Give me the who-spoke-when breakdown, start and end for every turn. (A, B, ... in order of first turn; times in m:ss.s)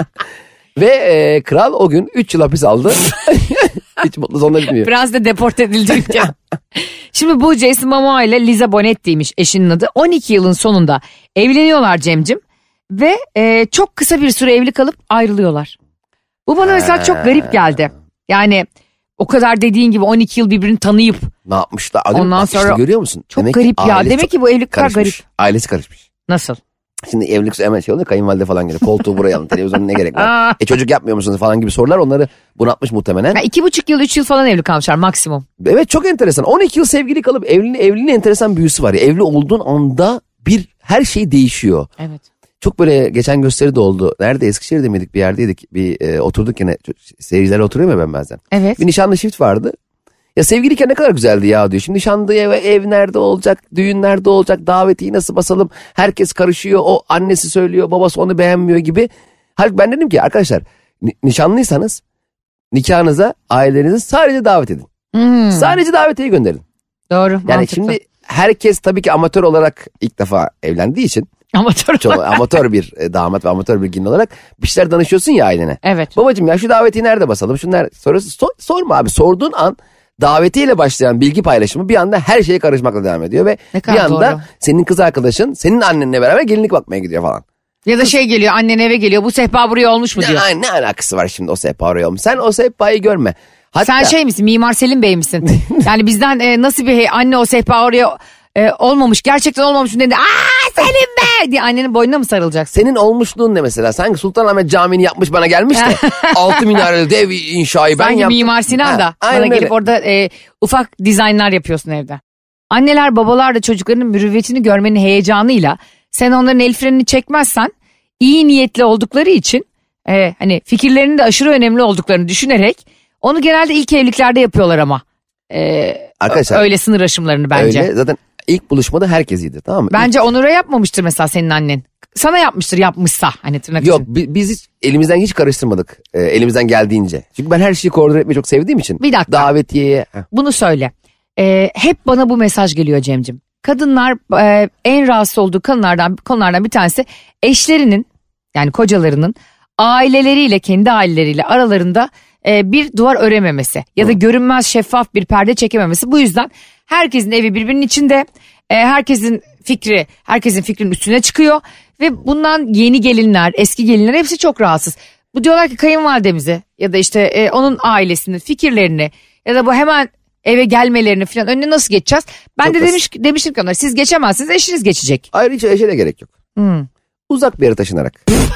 0:00.8-0:04.9 A
0:04.8-0:15.7 B
0:16.4-0:18.6 B
0:16.6-0:17.6 A
0:19.2-0:21.3 B
0:21.4-0:26.0 A
0:22.1-0:22.8 B
0:23.3-0:25.2 B
0:26.3-0:26.6 B
0:27.0-0:33.4 A
0:30.2-0:30.5 B
0:33.3-0:35.4 B
0:35.6-0:41.9 A
0:42.6-0:49.7 A
0:48.5-0:48.8 B
0:50.4-1:02.0 A
1:02.7-1:04.9 A
1:05.1-1:05.8 B
1:05.5-1:06.6 A
1:07.1-1:08.0 B
1:07.5-1:11.3 A
1:11.5-1:12.4 B
1:12.0-1:27.4 A
1:15.8-1:16.1 B
1:23.7-1:24.4 B
1:27.8-1:30.4 B
1:30.2-1:34.1 A
1:33.8-1:42.7 B
1:42.7-1:49.7 A
1:45.7-1:46.6 B
1:48.0-1:52.2 B
1:52.7-2:07.9 B
2:06.2-2:06.6 A
2:07.5-2:10.1 A
2:09.9-2:14.0 B
2:13.8-2:20.2 A
2:19.0-2:19.5 B
2:20.3-2:55.2 B
2:52.6-2:52.9 A
2:55.3-2:56.3 A
2:56.6-2:56.9 B
2:57.3-2:58.4 A